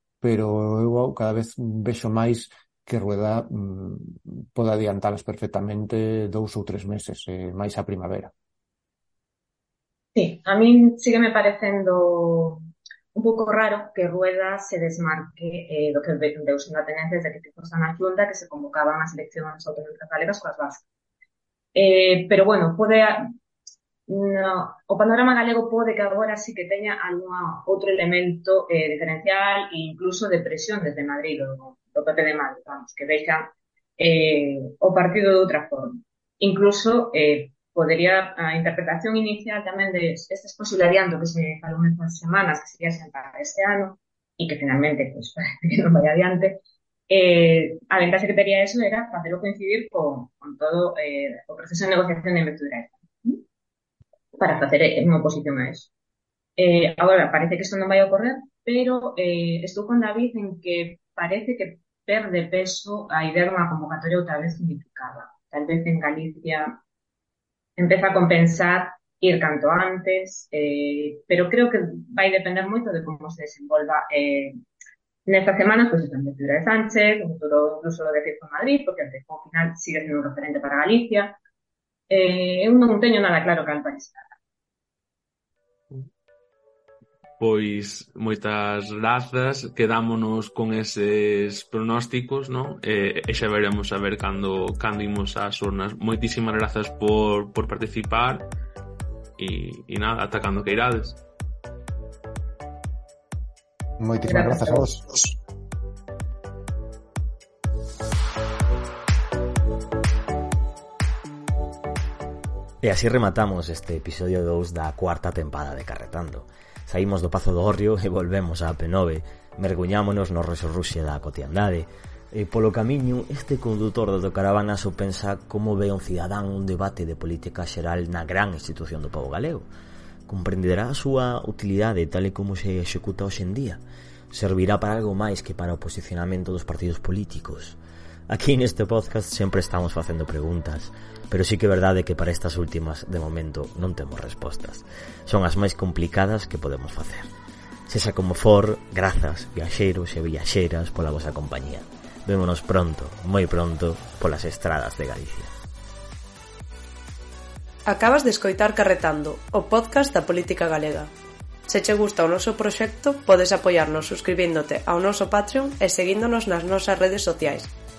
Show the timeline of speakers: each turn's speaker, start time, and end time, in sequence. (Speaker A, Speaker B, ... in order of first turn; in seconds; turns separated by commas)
Speaker A: 0.2-8.3, Speaker B: 10.1-12.6, Speaker B: 13.1-20.9, Speaker B: 21.7-23.3, Speaker B: 24.1-53.4, Speaker B: 54.4-55.9, Speaker B: 56.6-66.8, Speaker B: 67.8-74.5, Speaker B: 75.2-81.4, Speaker B: 82.1-84.2, Speaker C: 87.4-98.5, Speaker C: 99.4-101.2, Speaker A: 104.0-105.3, Speaker B: 104.3-104.9, Speaker D: 112.8-129.7, Speaker D: 130.3-147.3, Speaker D: 147.9-155.5, Speaker E: 157.9-161.1, Speaker E: 161.7-167.7